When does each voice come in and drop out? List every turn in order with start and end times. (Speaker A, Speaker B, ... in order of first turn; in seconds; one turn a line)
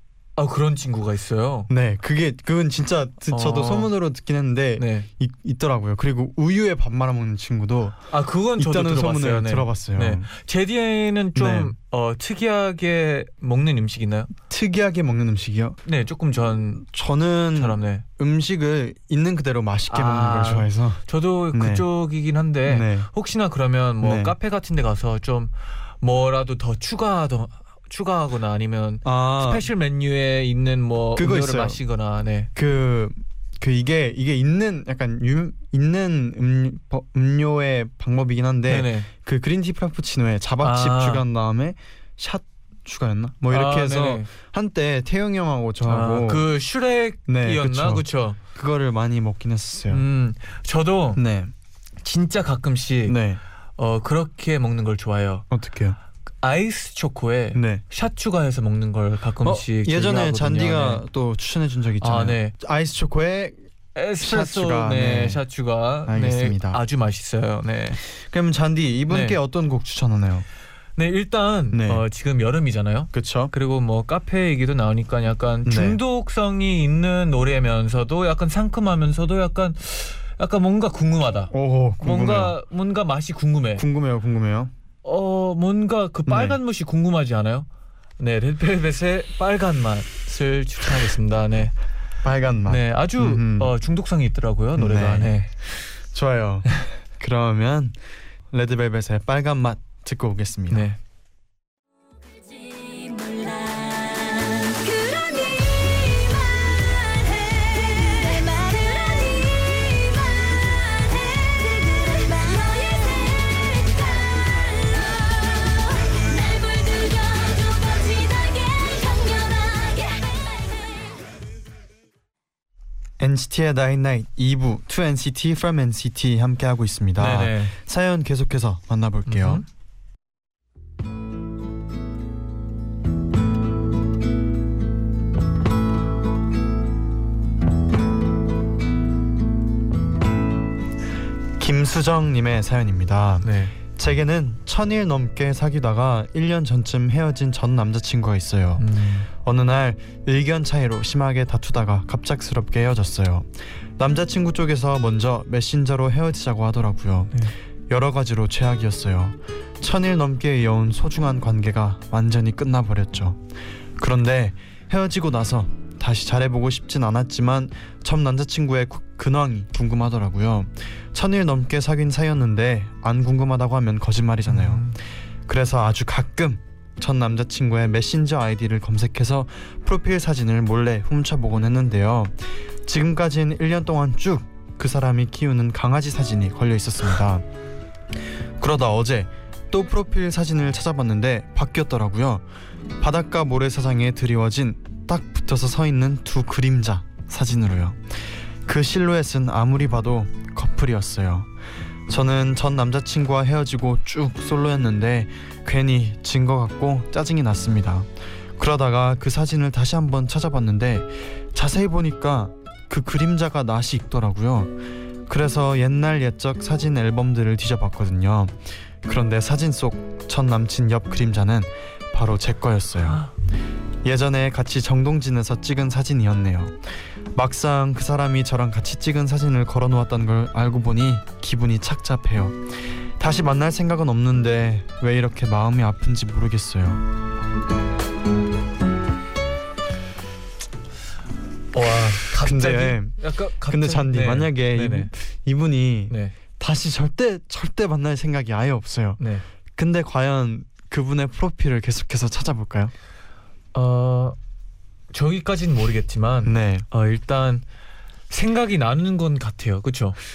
Speaker A: 0.4-1.7
Speaker B: 1.7-8.0
Speaker A: 3.3-3.9
Speaker A: 4.8-5.1
Speaker A: 8.1-14.3
Speaker B: 8.6-10.3
Speaker B: 11.4-11.7
Speaker B: 14.5-15.8
Speaker A: 15.8-16.8
Speaker B: 16.8-21.0
Speaker A: 17.6-18.1
Speaker A: 19.9-32.5
Speaker B: 21.5-21.9
Speaker B: 22.7-23.1
Speaker B: 24.0-24.4
Speaker B: 29.1-29.7
Speaker B: 31.2-31.8
Speaker B: 32.5-46.5
Speaker A: 38.7-39.1
Speaker A: 40.6-41.2
Speaker A: 43.5-44.3
Speaker A: 45.8-48.4
Speaker B: 47.3-50.0
Speaker A: 49.9-51.2
Speaker B: 51.2-51.5
Speaker A: 52.0-53.2
Speaker B: 53.1-53.4
Speaker A: 53.8-55.5
Speaker B: 55.5-56.0
Speaker A: 56.4-61.0
Speaker B: 57.5-57.8
Speaker B: 59.4-63.6
Speaker A: 62.0-62.5
Speaker A: 64.0-68.0
Speaker B: 64.2-65.4
Speaker B: 66.1-66.8
Speaker B: 68.1-70.5
Speaker A: 69.1-69.4
Speaker A: 71.0-83.8
Speaker B: 71.7-72.0
Speaker B: 73.1-73.5
Speaker B: 75.7-76.0
Speaker B: 81.5-82.6
Speaker B: 83.8-84.7
Speaker A: 85.0-87.7
Speaker B: 86.3-86.6
Speaker A: 88.2-91.8
Speaker B: 92.2-93.7
Speaker A: 92.7-95.5
Speaker B: 94.8-95.4
Speaker B: 96.1-98.0
Speaker B: 98.5-100.9
Speaker A: 100.7-101.0
Speaker C: 102.4-121.2
Speaker B: 123.2-129.6
Speaker A: 127.2-127.8
Speaker A: 129.3-129.6
Speaker B: 141.6-175.0
Speaker A: 143.4-143.8
Speaker A: 148.8-149.3
Speaker A: 174.5-175.0
Speaker B: 175.5-187.4
Speaker B: 188.6-192.4
Speaker B: 193.0-201.5
Speaker B: 202.1-223.3
Speaker B: 224.0-237.0
Speaker A: 241.7-245.1
Speaker B: 242.4-249.2
Speaker A: 246.1-246.3
Speaker A: 249.2-249.4
Speaker B: 249.8-252.9
Speaker A: 253.7-254.4
Speaker A: 255.1-257.6
Speaker B: 256.4-256.9
Speaker A: 258.3-260.2